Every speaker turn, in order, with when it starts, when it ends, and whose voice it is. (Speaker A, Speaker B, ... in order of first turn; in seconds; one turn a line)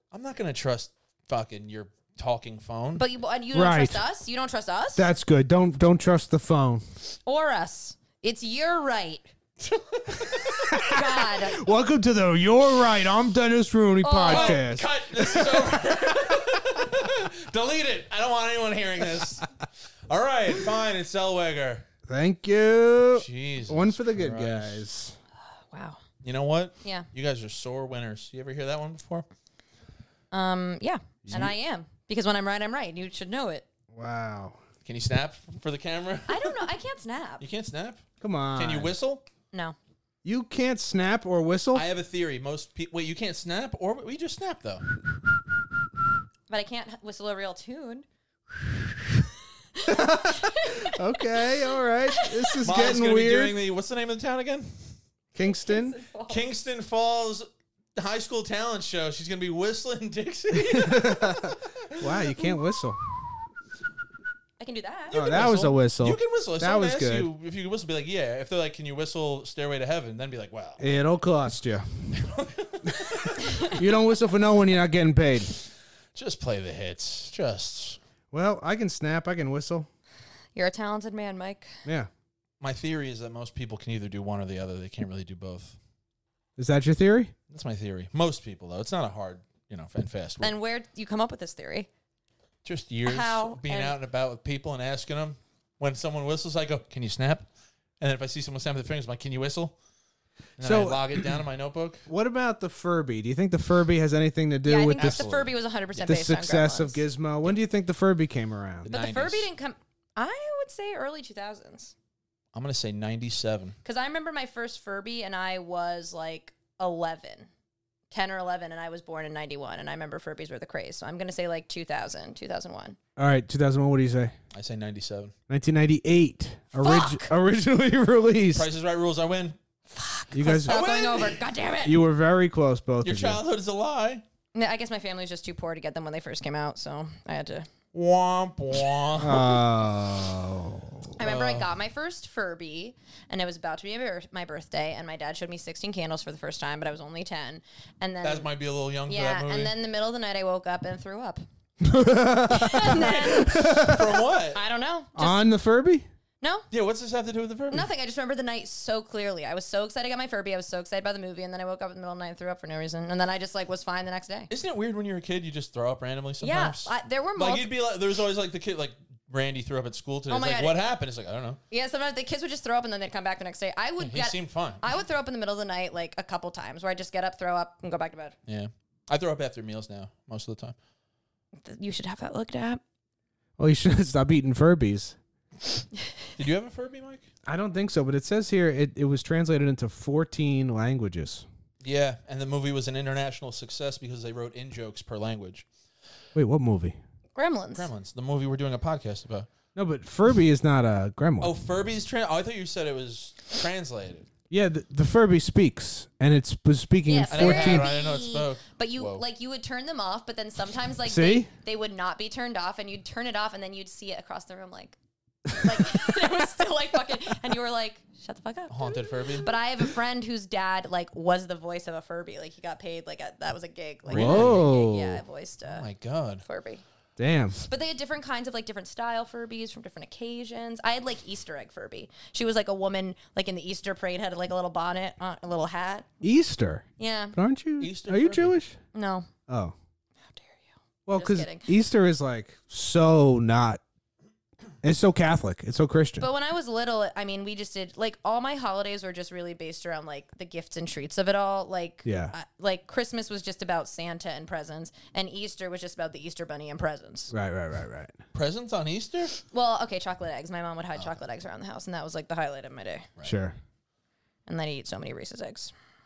Speaker A: 0.1-3.0
Speaker B: 3.0-5.1
Speaker C: 3.5-4.0
Speaker C: 5.0-6.8
Speaker B: 7.3-9.3
Speaker A: 9.6-10.7
Speaker C: 10.3-15.7
Speaker B: 10.8-11.6
Speaker B: 14.0-14.6
Speaker A: 14.3-21.9
Speaker C: 22.1-25.2
Speaker A: 23.1-24.8
Speaker B: 25.7-26.0
Speaker A: 26.2-29.3
Speaker B: 30.3-33.6
Speaker C: 31.2-31.5
Speaker C: 33.9-34.6
Speaker A: 34.8-36.6
Speaker B: 36.3-37.4
Speaker A: 37.4-38.0
Speaker C: 38.2-38.9
Speaker A: 38.5-39.2
Speaker C: 40.2-41.8
Speaker A: 41.7-44.9
Speaker B: 46.5-52.6
Speaker C: 49.9-53.6
Speaker A: 52.6-54.7
Speaker C: 55.4-56.0
Speaker B: 55.4-56.5
Speaker A: 56.3-62.0
Speaker C: 60.5-63.0
Speaker B: 64.6-65.4
Speaker A: 65.1-70.8
Speaker C: 65.1-67.3
Speaker C: 70.8-71.9
Speaker A: 72.1-73.7
Speaker C: 72.9-75.6
Speaker B: 73.5-73.7
Speaker A: 76.2-78.0
Speaker C: 78.3-79.9
Speaker B: 80.5-81.7
Speaker A: 82.6-85.8
Speaker C: 86.6-87.3
Speaker A: 87.5-90.5
Speaker B: 90.4-91.9
Speaker A: 92.7-97.5
Speaker B: 93.0-94.0
Speaker A: 98.0-99.8
Speaker A: 100.6-102.1
Speaker C: 100.6-101.2
Speaker C: 102.1-105.3
Speaker B: 104.7-107.0
Speaker A: 105.0-106.2
Speaker C: 106.0-108.9
Speaker A: 108.8-109.5
Speaker B: 108.9-111.9
Speaker A: 112.5-113.8
Speaker B: 113.8-117.5
Speaker B: 118.1-123.0
Speaker C: 123.2-124.3
Speaker A: 124.5-125.3
Speaker C: 125.5-128.7
Speaker B: 126.8-127.3
Speaker A: 128.5-129.6
Speaker B: 129.9-132.0
Speaker C: 130.3-130.8
Speaker A: 130.7-131.4
Speaker C: 131.8-133.4
Speaker A: 133.0-134.2
Speaker B: 134.5-137.7
Speaker A: 137.9-139.6
Speaker C: 139.2-141.1
Speaker B: 141.2-148.5
Speaker A: 141.2-141.7
Speaker A: 148.2-149.7
Speaker B: 149.1-151.4
Speaker C: 151.8-154.1
Speaker B: 152.5-155.4
Speaker A: 152.8-154.6
Speaker C: 155.2-156.1
Speaker B: 156.4-156.7
Speaker A: 156.7-157.9
Speaker B: 157.7-164.5
Speaker A: 164.5-171.6
Speaker B: 166.4-167.7
Speaker B: 170.3-170.8
Speaker B: 171.7-178.4
Speaker A: 174.0-174.8
Speaker A: 178.5-180.8
Speaker B: 181.7-182.8
Speaker C: 183.6-185.2
Speaker A: 186.4-187.3
Speaker C: 187.5-191.4
Speaker A: 191.8-195.7
Speaker C: 196.3-197.0
Speaker B: 197.3-197.9
Speaker A: 197.8-199.5
Speaker C: 199.8-201.5
Speaker A: 201.4-204.3
Speaker C: 204.5-207.9
Speaker B: 207.1-215.0
Speaker A: 207.3-209.2
Speaker C: 211.1-211.5
Speaker C: 215.5-215.8
Speaker B: 215.6-225.9
Speaker A: 218.7-219.5
Speaker A: 224.1-224.7
Speaker C: 224.1-225.2
Speaker A: 225.7-226.4
Speaker B: 226.4-226.8
Speaker C: 227.2-227.6
Speaker B: 227.6-236.1
Speaker C: 236.2-238.8
Speaker B: 237.0-237.4
Speaker A: 237.8-238.6
Speaker B: 238.9-239.3
Speaker C: 239.5-239.7
Speaker B: 240.3-241.7
Speaker C: 241.1-243.8
Speaker C: 244.8-246.3
Speaker B: 246.2-257.3
Speaker C: 252.1-252.3
Speaker C: 257.3-258.2
Speaker A: 258.3-259.4
Speaker B: 259.5-263.1
Speaker C: 263.2-263.5
Speaker B: 264.5-265.7